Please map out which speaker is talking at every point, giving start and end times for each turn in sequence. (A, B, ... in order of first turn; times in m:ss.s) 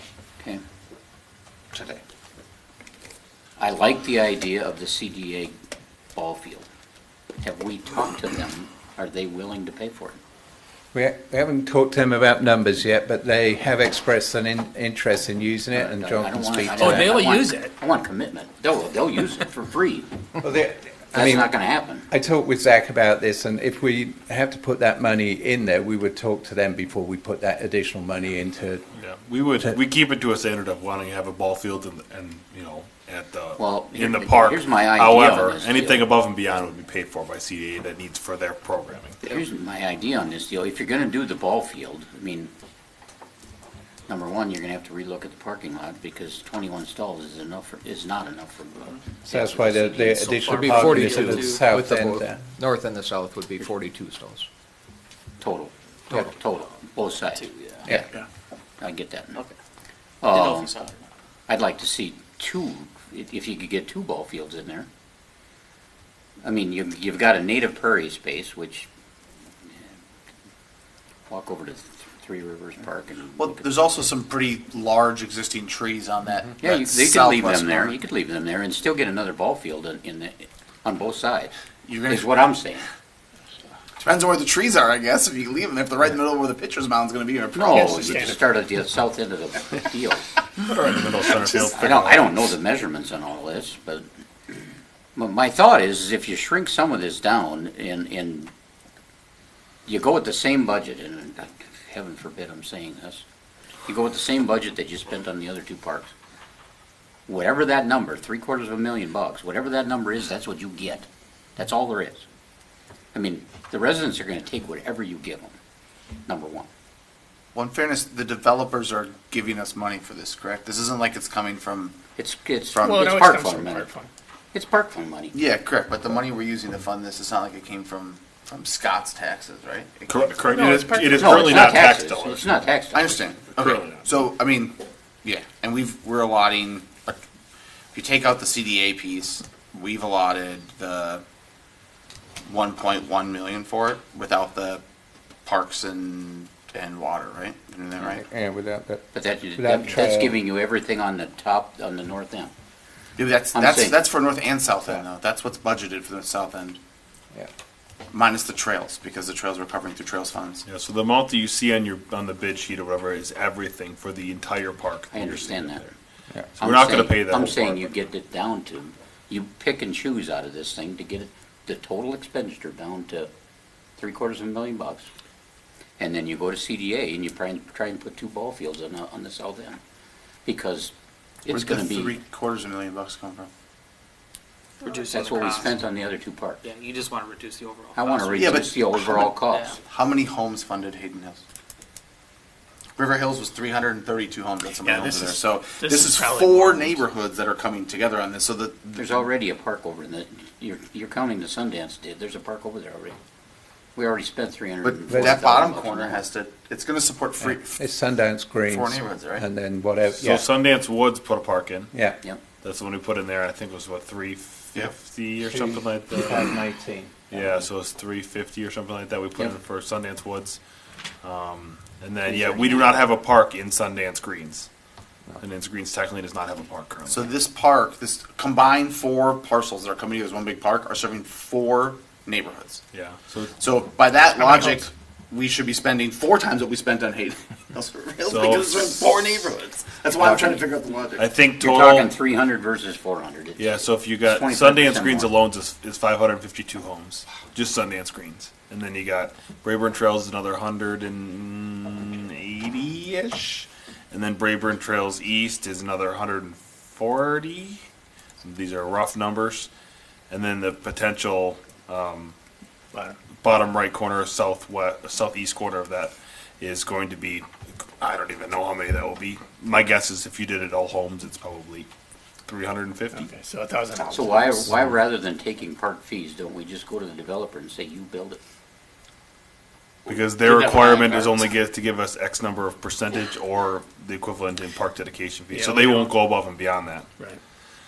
0:03.6-0:05.5 A
0:06.2-0:06.6 A
0:07.4-0:10.2 A
0:10.9-0:17.2 B
0:15.7-0:20.1 A
0:16.8-0:17.7 C
0:20.4-0:21.5 B
0:21.1-0:22.1 A
0:22.1-0:28.8 B
0:28.9-0:39.3 D
0:33.6-0:36.1 A
0:39.2-0:42.5 A
0:44.1-0:51.3 A
0:49.3-0:52.4 B
0:50.2-0:51.6 C
0:50.4-0:54.5 E
0:55.4-0:58.1 A
0:57.3-0:57.8 C
0:58.8-0:59.4 A
1:00.2-1:00.7 A
1:00.3-1:00.9 C
1:01.5-1:04.9 A
1:06.4-1:08.9 A
1:11.3-1:13.7 A
1:13.4-1:18.0 F
1:16.6-1:21.5 A
1:21.8-1:22.4 F
1:22.1-1:22.9 A
1:24.0-1:28.4 F
1:27.5-1:30.3 A
1:27.7-1:28.4 G
1:30.6-1:32.4 D
1:31.7-1:34.0 A
1:35.1-1:38.5 A
1:39.8-1:43.2 A
1:43.9-1:46.1 A
1:47.3-1:52.2 A
1:53.1-1:55.6 A
1:56.2-1:56.7 A
1:57.5-2:02.0 F
2:02.2-2:03.9 A
2:02.7-2:03.0 F
2:02.8-2:04.1 G
2:04.5-2:05.3 A
2:05.3-2:11.6 F
2:10.1-2:12.5 D
2:10.5-2:11.2 G
2:11.2-2:13.2 A
2:12.9-2:17.2 F
2:13.6-2:14.0 D
2:17.9-2:21.2 F
2:22.4-2:24.8 F
2:25.4-2:28.2 F
2:28.1-2:30.4 B
2:29.1-2:32.5 A
2:33.2-2:36.8 F
2:33.5-2:34.0 A
2:38.1-2:40.6 F
2:40.6-2:45.8 D
2:45.1-2:45.9 A
2:46.6-2:47.9 D
2:46.6-2:53.3 A
2:54.0-2:55.0 A
2:56.0-2:59.8 A
3:00.4-3:00.9 A
3:01.4-3:02.2 A
3:01.5-3:03.5 F
3:04.8-3:05.8 C
3:05.1-3:06.6 A
3:06.6-3:08.7 C
3:07.9-3:09.8 A
3:08.4-3:11.4 F
3:09.4-3:09.8 C
3:13.0-3:19.2 F
3:14.8-3:17.0 G
3:19.0-3:23.1 A
3:23.9-3:26.2 A
3:24.8-3:27.8 F
3:25.1-3:25.4 B
3:27.4-3:30.5 B
3:28.6-3:29.4 F
3:30.2-3:31.9 D
3:31.9-3:32.2 B
3:32.6-3:36.6 D
3:35.4-3:37.5 B
3:37.3-3:40.6 D
3:41.2-3:44.7 D
3:42.5-3:42.9 B
3:45.4-3:47.3 D
3:47.1-3:52.8 F
3:52.9-3:53.5 D
3:53.6-4:01.3 F
3:54.4-3:54.8 D
3:58.3-3:58.9 D
4:01.2-4:02.1 D
4:01.6-4:05.4 A
4:03.6-4:17.8 D
4:18.4-4:19.7 D
4:20.3-4:22.3 D
4:23.4-4:31.9 D
4:32.4-4:33.3 D
4:33.1-4:34.7 G
4:34.1-4:38.4 A
4:40.0-4:47.1 D
4:40.1-4:41.5 A
4:45.5-4:46.1 G